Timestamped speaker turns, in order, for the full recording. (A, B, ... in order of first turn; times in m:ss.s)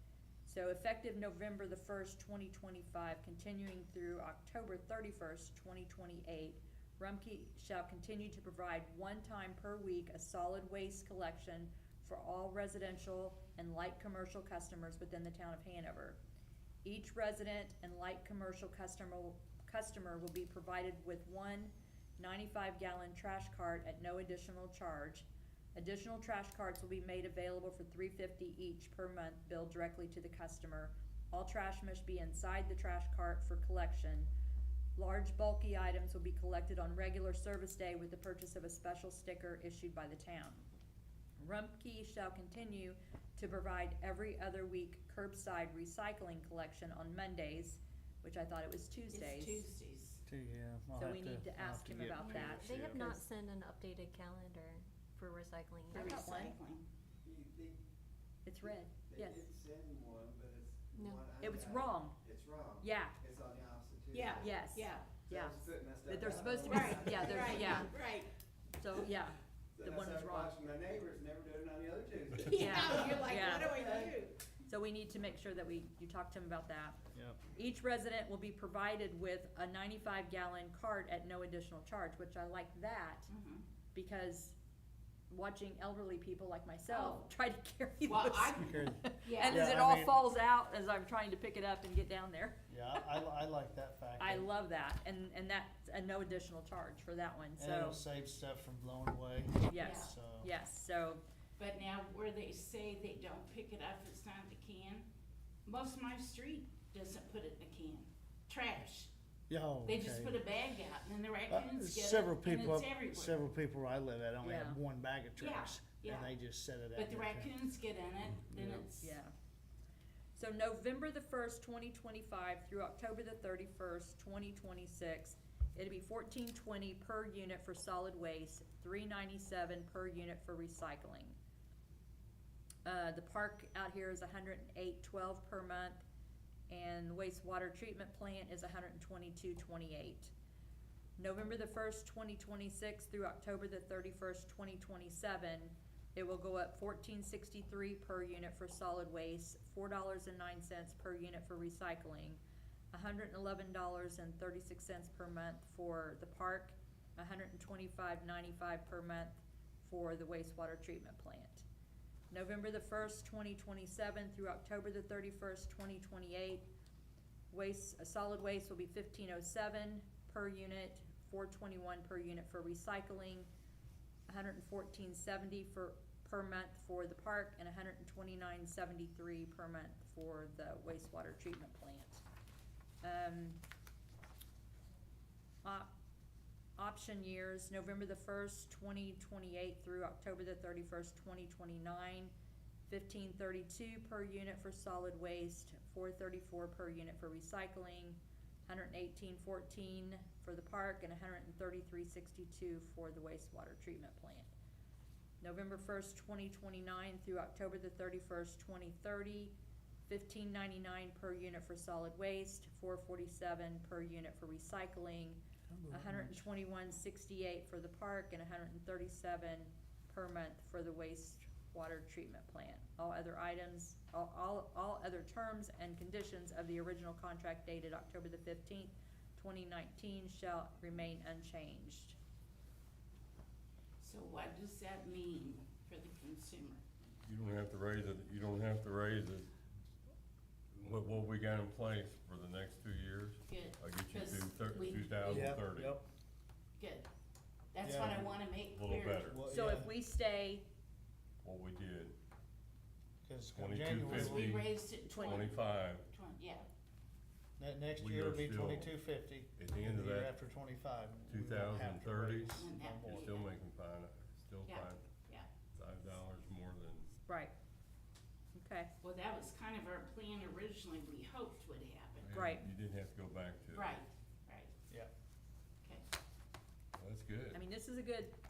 0:00.5-0:16.2 A
0:16.8-0:34.3 A
0:35.0-0:40.7 A
0:41.4-0:49.6 A
0:49.1-0:50.2 B
0:50.3-0:53.1 C
0:51.0-0:53.2 A
0:52.2-0:56.5 D
0:52.3-0:52.8 E
0:55.9-0:56.5 A
0:55.9-0:56.8 B
0:57.2-0:57.8 E
0:58.4-0:59.4 A
0:58.6-1:04.5 E
1:01.0-1:01.3 D
1:01.4-1:02.2 A
1:02.8-1:03.2 A
1:04.1-1:05.2 B
1:04.4-1:08.0 A
1:05.3-1:07.9 E
1:06.6-1:08.3 B
1:08.8-1:10.5 A
1:09.8-1:14.2 E
1:12.4-1:14.4 B
1:12.6-1:13.8 A
1:14.7-1:17.0 A
1:17.2-1:17.4 C
1:17.5-1:23.3 A
1:23.3-1:23.6 B
1:23.9-1:24.6 A
1:25.3-1:33.1 A
1:26.9-1:27.3 B
1:28.0-1:29.6 B
1:28.6-1:30.2 C
1:32.7-1:34.5 C
1:34.2-1:38.0 A
1:37.6-1:40.5 C
1:39.7-1:41.2 A
1:39.8-1:40.1 B
1:41.6-1:45.1 B
1:45.6-1:49.1 B
1:49.5-1:50.4 C
1:49.8-1:53.4 B
1:51.5-1:57.5 C
1:54.4-1:54.8 A
1:55.4-1:56.3 B
1:57.0-1:59.1 B
1:58.5-1:58.9 C
1:59.0-1:59.3 A
2:00.4-2:11.4 A
2:12.8-2:16.0 A
2:16.7-2:20.3 A
2:21.2-2:32.4 A
2:32.9-2:41.6 A
2:42.3-2:46.7 A
2:47.5-2:53.5 A
2:54.3-3:02.2 A
3:03.0-3:03.6 A
3:05.6-3:05.9 A
3:06.8-3:12.3 A
3:12.9-3:24.5 A
3:25.4-3:29.5 A
3:30.1-3:52.2 A
3:35.7-3:36.4 C
3:54.0-3:56.9 B
3:57.2-3:59.5 F
4:00.8-4:06.0 F
4:03.5-4:05.6 B
4:05.3-4:06.0 C
4:06.8-4:07.1 B
4:07.7-4:09.4 B
4:07.8-4:08.3 C
4:08.6-4:09.4 F
4:09.3-4:09.9 C
4:09.5-4:10.7 A
4:11.4-4:12.2 F
4:13.2-4:14.5 C
4:13.6-4:16.1 F
4:14.1-4:16.7 B
4:17.6-4:23.3 C
4:18.0-4:18.9 F
4:19.6-4:20.3 F
4:21.3-4:25.0 F
4:22.6-4:23.5 B
4:24.7-4:25.5 B
4:25.8-4:27.1 F
4:27.3-4:27.5 A
4:28.6-4:28.9 A
4:29.0-4:32.4 B
4:32.2-4:34.0 F
4:32.3-4:32.7 A
4:33.7-4:34.7 B
4:37.0-4:37.6 F
4:37.5-4:38.4 A